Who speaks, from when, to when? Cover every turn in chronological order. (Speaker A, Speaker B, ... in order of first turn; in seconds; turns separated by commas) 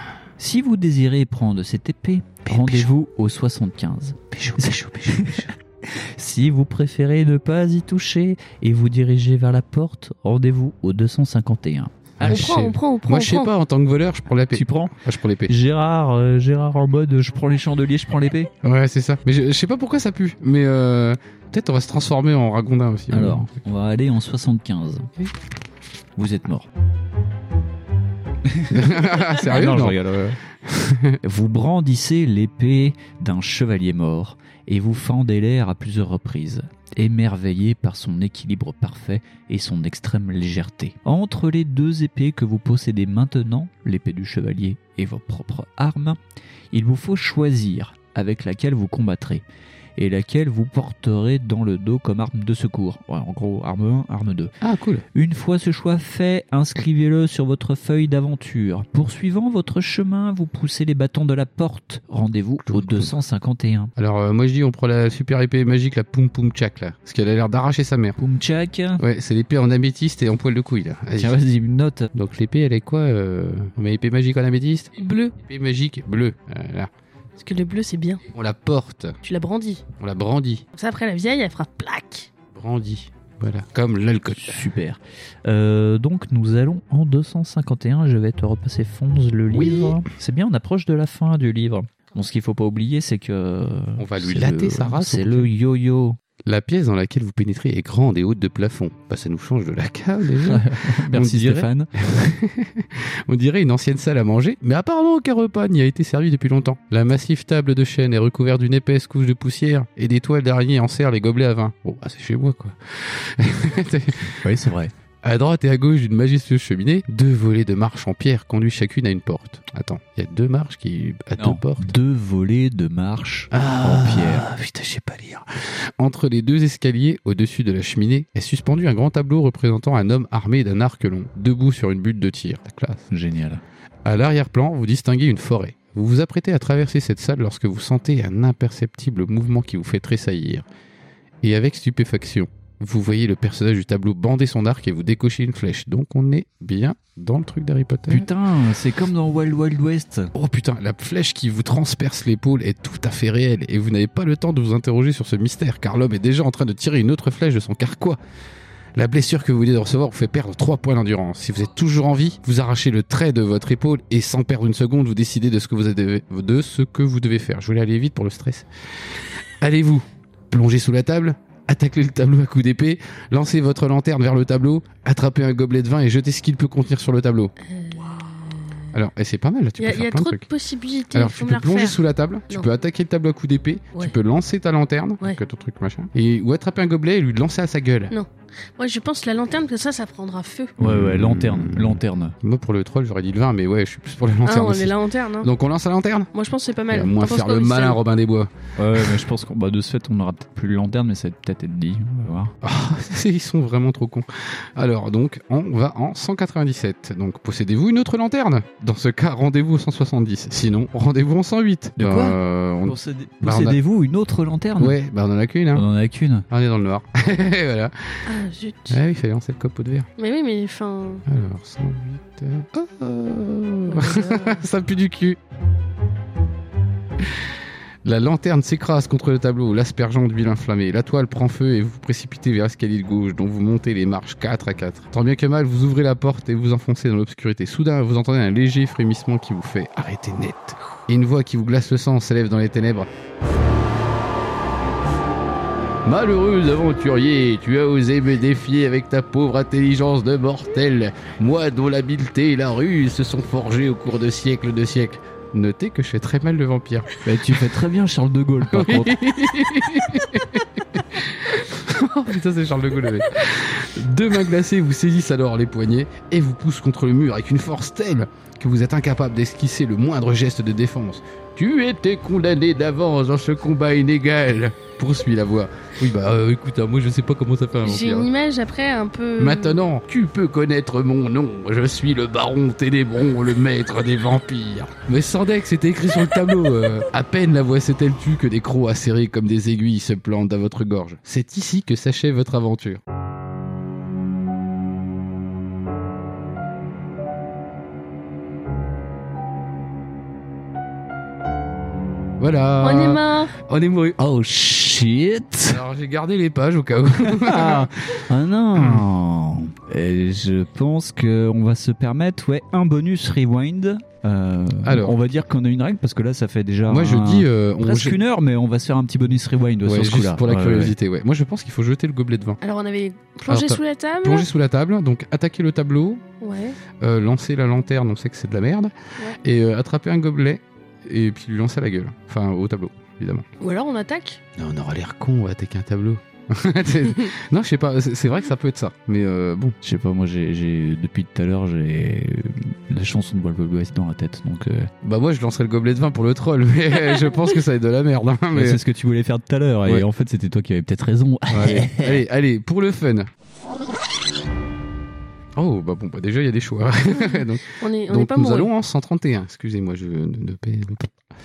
Speaker A: 0.4-12.6, Speaker B: 2.4-2.9, Speaker B: 4.3-5.5, Speaker B: 12.2-15.5, Speaker C: 12.2-13.5, Speaker A: 14.5-14.9, Speaker A: 15.5-18.5, Speaker B: 18.6-23.5, Speaker A: 23.1-25.1, Speaker A: 26.2-26.7, Speaker A: 28.5-30.4, Speaker B: 28.7-30.0, Speaker B: 30.6-31.2, Speaker A: 31.2-46.2, Speaker A: 46.7-49.4, Speaker A: 50.0-54.5, Speaker B: 54.6-55.0, Speaker A: 55.1-63.9, Speaker B: 62.6-63.1, Speaker B: 64.0-68.2, Speaker A: 68.2-69.0, Speaker B: 69.0-71.4, Speaker A: 71.2-72.1, Speaker B: 72.1-76.9, Speaker C: 75.0-75.3, Speaker C: 77.4-78.2, Speaker B: 78.3-79.2, Speaker C: 79.2-79.8, Speaker B: 80.0-80.7, Speaker C: 80.7-82.3, Speaker B: 82.5-84.7, Speaker A: 84.3-96.2, Speaker B: 89.5-90.0, Speaker B: 94.0-95.5, Speaker B: 96.5-114.4, Speaker A: 100.4-101.9, Speaker A: 114.4-114.9, Speaker B: 115.2-121.9, Speaker A: 121.4-124.5, Speaker B: 123.5-133.1, Speaker A: 133.1-133.6, Speaker B: 134.0-140.6, Speaker B: 141.4-148.3, Speaker A: 148.1-150.3, Speaker B: 150.3-158.2, Speaker B: 158.9-177.5, Speaker C: 177.6-178.8, Speaker B: 178.9-180.4, Speaker C: 179.8-182.7, Speaker B: 181.1-188.1, Speaker C: 188.1-190.7, Speaker A: 190.8-192.3, Speaker B: 190.8-196.3, Speaker C: 194.4-195.5, Speaker C: 196.3-198.0, Speaker B: 196.9-199.2, Speaker A: 198.8-202.5, Speaker B: 202.6-213.8, Speaker A: 212.0-214.9, Speaker B: 214.8-215.8, Speaker A: 215.7-216.4, Speaker B: 216.5-218.3, Speaker C: 218.2-219.0, Speaker B: 218.9-220.1, Speaker C: 220.2-221.2, Speaker B: 221.3-225.4, Speaker C: 223.9-224.6, Speaker B: 228.0-243.1, Speaker B: 246.0-257.1, Speaker A: 257.2-259.2, Speaker B: 258.7-278.3, Speaker C: 277.8-279.8, Speaker B: 279.4-293.0, Speaker B: 302.4-304.2, Speaker C: 302.8-303.5, Speaker A: 304.2-305.8, Speaker B: 305.7-309.1, Speaker A: 307.2-320.9, Speaker B: 314.8-315.2, Speaker B: 316.9-318.2, Speaker B: 319.9-322.6, Speaker C: 322.6-324.5, Speaker B: 323.5-326.2, Speaker C: 326.4-326.8, Speaker B: 327.0-333.4, Speaker C: 333.6-334.4, Speaker B: 334.6-339.8, Speaker A: 339.8-344.9, Speaker B: 345.0-348.8, Speaker A: 348.5-352.2, Speaker B: 351.5-353.3, Speaker B: 355.6-361.1, Speaker C: 357.3-358.7